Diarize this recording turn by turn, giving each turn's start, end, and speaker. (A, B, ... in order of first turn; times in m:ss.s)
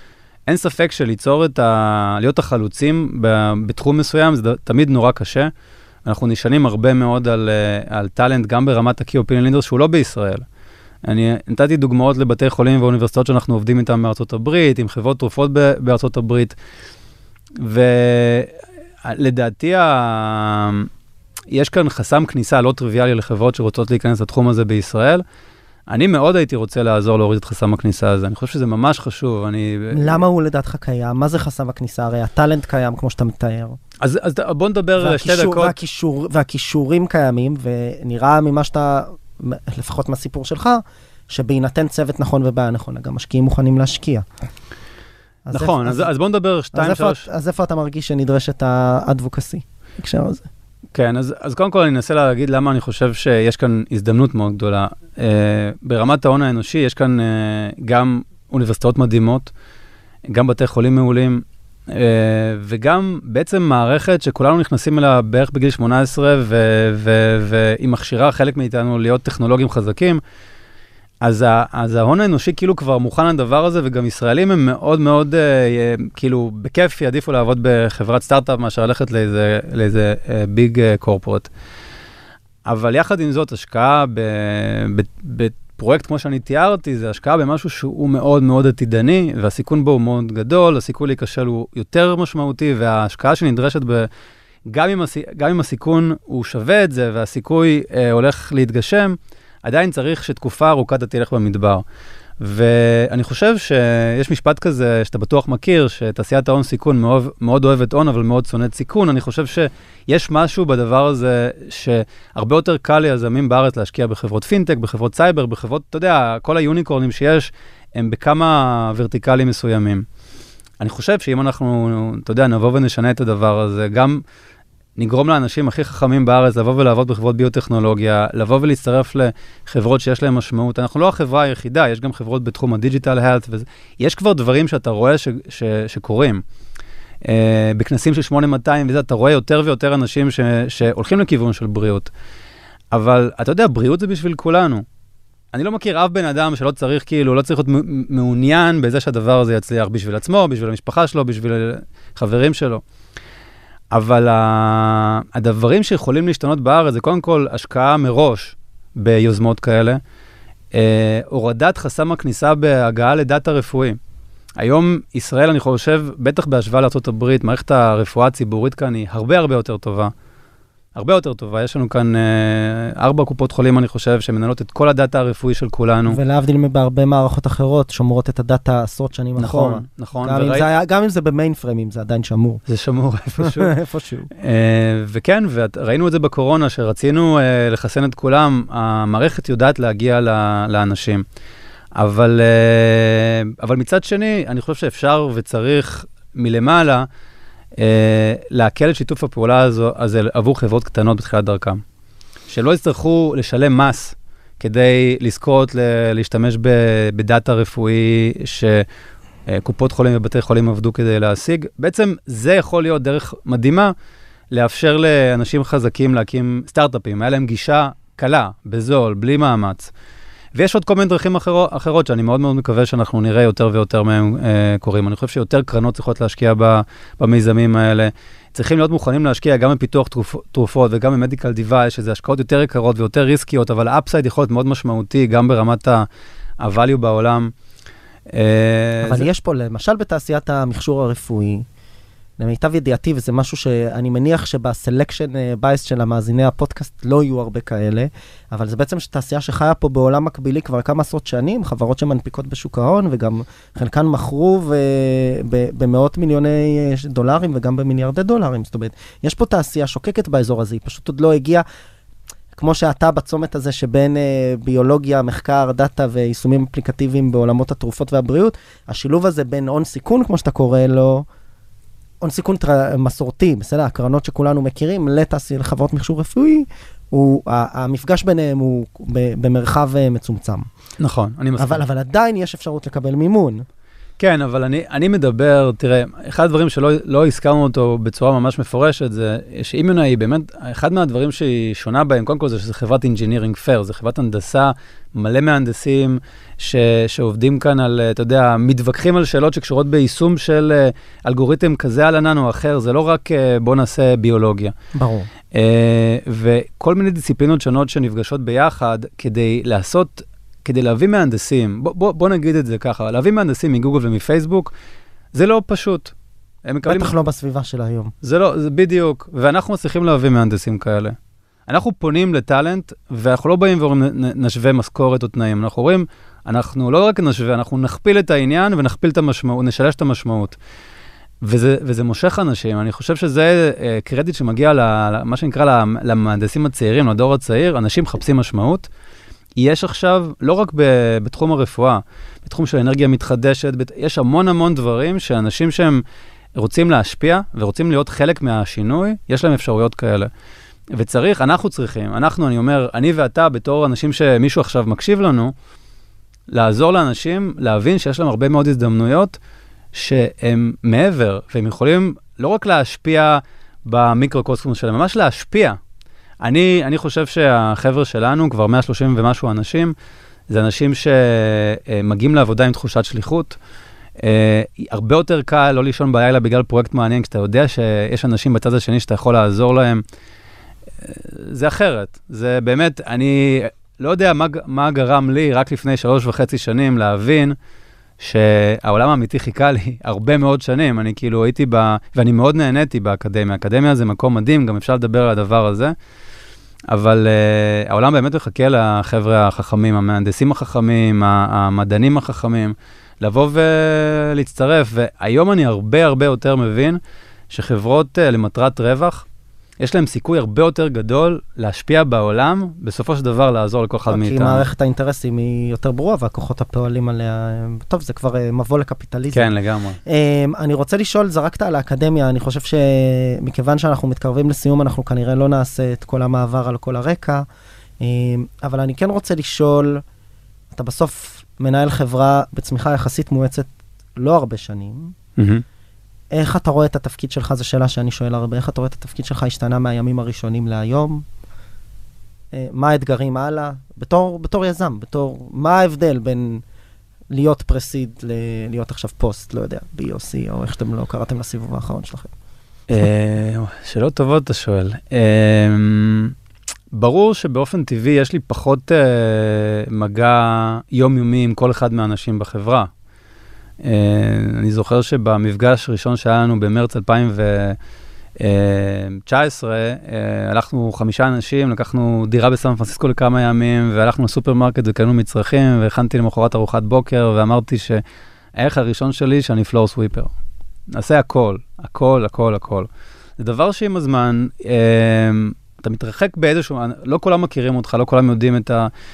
0:00.5-0:05.5 A
0:06.0-0:10.4 A
0:11.0-0:16.5 A
0:17.6-0:20.9 A
0:21.5-0:25.2 A
0:25.9-0:30.2 A
0:29.9-0:33.8 B
0:34.0-0:35.7 A
0:35.0-0:44.2 B
0:45.4-0:46.1 B
0:45.5-0:47.2 A
0:46.7-0:50.5 B
0:50.9-0:59.5 A
1:00.3-1:10.2 A
1:11.2-1:21.5 A
1:22.6-1:34.1 A
1:34.7-1:41.8 A
1:42.4-2:00.0 A
2:00.8-2:04.2 A
2:05.0-2:16.4 A
2:17.2-2:22.1 A
2:22.9-2:24.8 A
2:25.5-2:32.8 A
2:33.9-2:40.0 A
2:40.7-2:44.0 A
2:44.6-2:50.1 A
2:50.9-2:56.2 A
2:56.1-3:02.6 B
2:59.4-3:00.6 A
3:02.7-3:03.7 A
3:03.4-3:04.3 B
3:04.3-3:11.2 A
3:12.0-3:17.1 A
3:17.8-3:21.8 A
3:22.5-3:28.8 A
3:29.5-3:33.9 A
3:34.5-3:39.9 A
3:40.5-3:56.0 A
3:56.6-3:57.5 A
3:58.3-3:59.3 A
3:59.0-4:01.6 B
4:02.4-4:21.6 B
4:22.6-4:31.2 B
4:32.2-4:40.7 B
4:41.0-4:41.8 A
4:41.6-4:43.6 B
4:44.2-5:04.7 A
5:04.9-5:05.3 B
5:05.5-5:14.7 A
5:15.3-5:16.1 A
5:16.6-5:17.1 A
5:16.8-5:18.1 B
5:18.2-5:21.2 A
5:21.7-5:30.6 A
5:31.4-5:38.9 A
5:39.6-5:46.0 A
5:46.6-5:50.3 A
5:50.9-5:55.5 A
5:56.5-5:59.4 A
5:59.9-6:05.8 A
6:06.4-6:09.9 A
6:10.5-6:13.6 A
6:14.2-6:20.0 A
6:21.0-6:27.6 A
6:28.2-6:35.9 A
6:36.9-6:49.2 A
6:49.8-6:54.6 A
6:54.1-6:59.5 B
6:59.3-7:00.0 A
7:00.0-7:07.4 B
7:08.0-7:10.0 B
7:10.7-7:15.1 B
7:15.4-7:15.6 A
7:16.3-7:21.2 B
7:22.5-7:26.6 B
7:27.3-7:32.3 B
7:32.9-7:36.3 A
7:36.9-7:42.9 A
7:43.8-7:47.8 A
7:48.4-7:58.0 A
7:58.6-8:00.3 A
8:00.9-8:08.9 A